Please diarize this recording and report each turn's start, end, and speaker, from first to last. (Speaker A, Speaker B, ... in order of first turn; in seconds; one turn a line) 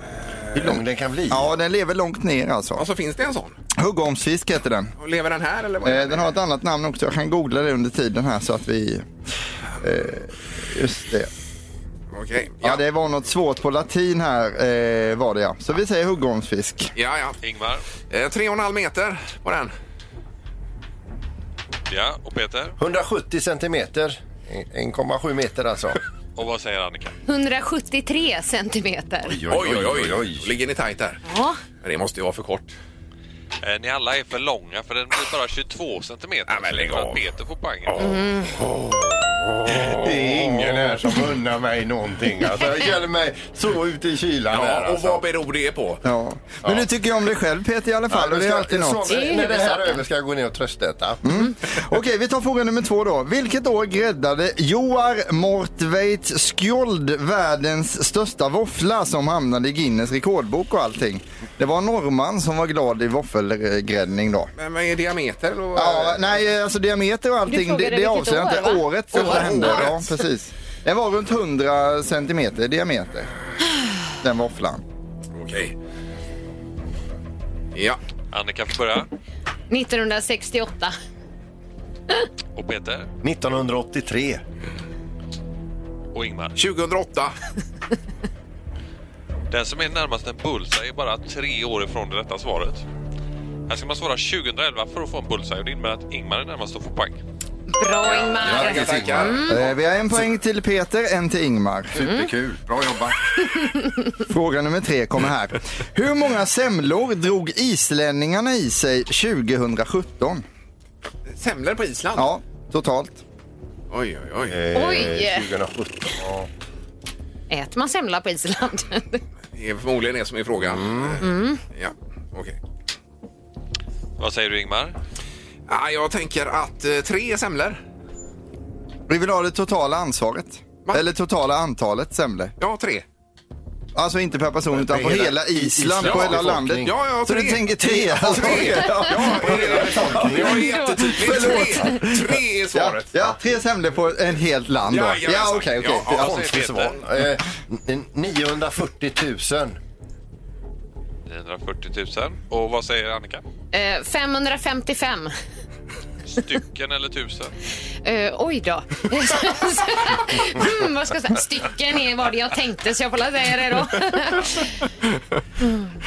Speaker A: 0.5-1.4
Speaker B: 1.3-2.8
Speaker C: 2.8-3.5
Speaker B: 3.8-4.9
Speaker C: 5.0-6.3
Speaker B: 5.8-9.1
Speaker B: 9.8-11.3
Speaker C: 12.1-12.8
Speaker B: 12.6-16.9
Speaker C: 16.9-17.4
Speaker D: 17.4-17.8
Speaker C: 18.1-19.7
Speaker D: 21.9-22.8
Speaker A: 22.8-26.0
Speaker D: 26.4-27.1
Speaker E: 27.3-29.4
Speaker A: 29.3-30.5
Speaker C: 29.5-31.2
Speaker E: 31.2-31.6
Speaker C: 31.8-32.7
Speaker D: 33.6-38.0
Speaker C: 36.5-37.2
Speaker C: 37.9-38.2
Speaker E: 38.0-38.5
Speaker A: 38.7-45.2
Speaker C: 39.5-41.0
Speaker C: 44.5-46.0
Speaker B: 46.0-49.2
Speaker A: 48.1-51.2
Speaker E: 49.1-50.0
Speaker B: 51.2-64.5
Speaker C: 64.6-66.4
Speaker B: 65.7-73.3
Speaker E: 67.5-69.9
Speaker C: 69.1-70.0
Speaker B: 74.2-74.8
Speaker C: 75.3-75.7
Speaker C: 77.7-78.0
Speaker D: 78.3-79.1
Speaker E: 79.7-80.9
Speaker D: 82.5-83.1
Speaker A: 83.2-84.4
Speaker D: 86.1-86.6
Speaker C: 86.5-87.3
Speaker D: 89.5-92.8
Speaker D: 93.7-97.2
Speaker E: 97.7-99.6
Speaker C: 98.0-99.7
Speaker A: 98.0-99.5
Speaker B: 99.5-102.1
Speaker A: 102.0-103.2
Speaker E: 102.0-102.3
Speaker B: 104.3-110.4
Speaker C: 111.3-112.3
Speaker B: 112.2-113.2
Speaker C: 113.9-114.6
Speaker A: 114.5-116.5
Speaker E: 114.7-115.5
Speaker E: 117.5-119.2
Speaker C: 119.5-122.6
Speaker A: 120.6-121.2
Speaker E: 121.2-121.6
Speaker D: 124.2-124.9
Speaker C: 125.7-127.8
Speaker B: 129.1-132.5
Speaker C: 132.6-133.0
Speaker B: 133.9-146.1
Speaker A: 134.8-136.9
Speaker C: 136.0-143.1
Speaker A: 137.9-140.7
Speaker E: 140.5-141.9
Speaker C: 144.9-146.3
Speaker D: 146.0-147.0
Speaker A: 146.1-149.8
Speaker D: 151.2-153.4
Speaker E: 153.7-155.3
Speaker D: 156.3-157.5
Speaker E: 158.0-164.7